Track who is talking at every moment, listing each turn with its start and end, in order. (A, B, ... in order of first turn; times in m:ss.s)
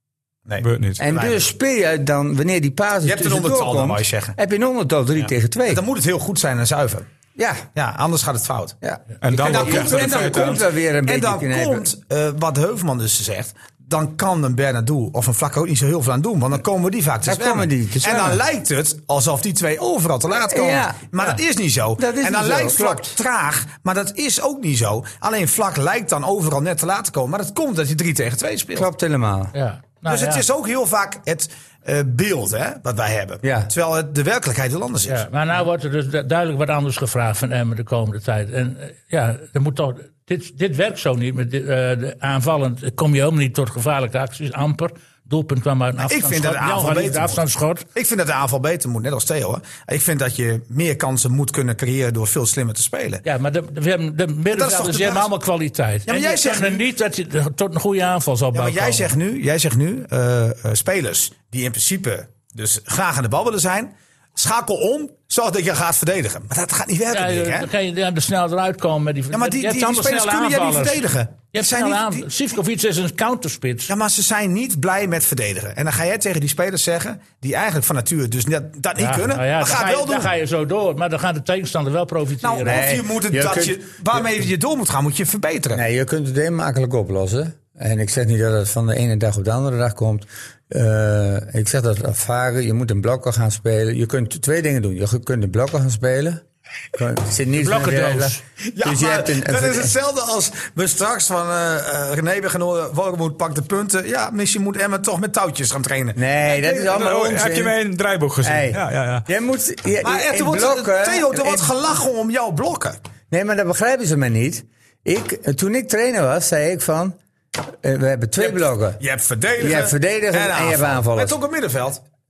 0:00.5-0:01.4 A
0:00.6-0:01.0 B
0:01.0-0:05.8 C
0:03.0-0:04.4 A
0:05.2-0:07.1 A
0:07.4-0:07.7 C
0:07.8-0:08.8 A
0:08.8-0:11.9 C
0:09.2-0:10.6 B
0:09.3-0:28.9 A
0:17.2-0:18.4 C
0:20.5-0:21.1 C
0:22.0-0:23.2 C
0:28.7-0:29.5 C
0:29.5-0:30.4 D
0:30.1-0:35.2 A
0:33.4-0:33.7 C
0:35.1-0:47.9 D
0:46.0-0:47.4 A
0:48.0-0:53.2 A
0:53.2-0:59.1 D
0:54.5-0:55.3 A
0:56.1-0:56.8 A
0:58.5-1:07.7 A
1:07.1-1:13.9 D
1:09.3-1:12.3 A
1:13.9-1:20.3 A
1:19.0-1:22.9 D
1:22.4-1:25.8 A
1:22.6-1:24.3 C
1:25.7-1:40.0 C
1:37.6-1:38.4 D
1:38.7-1:47.0 A
1:46.2-1:47.8 C
1:46.9-1:49.3 B
1:48.4-1:51.8 C
1:50.0-1:53.0 A
1:53.3-1:59.0 C
1:58.4-2:02.0 A
1:59.6-2:01.4 C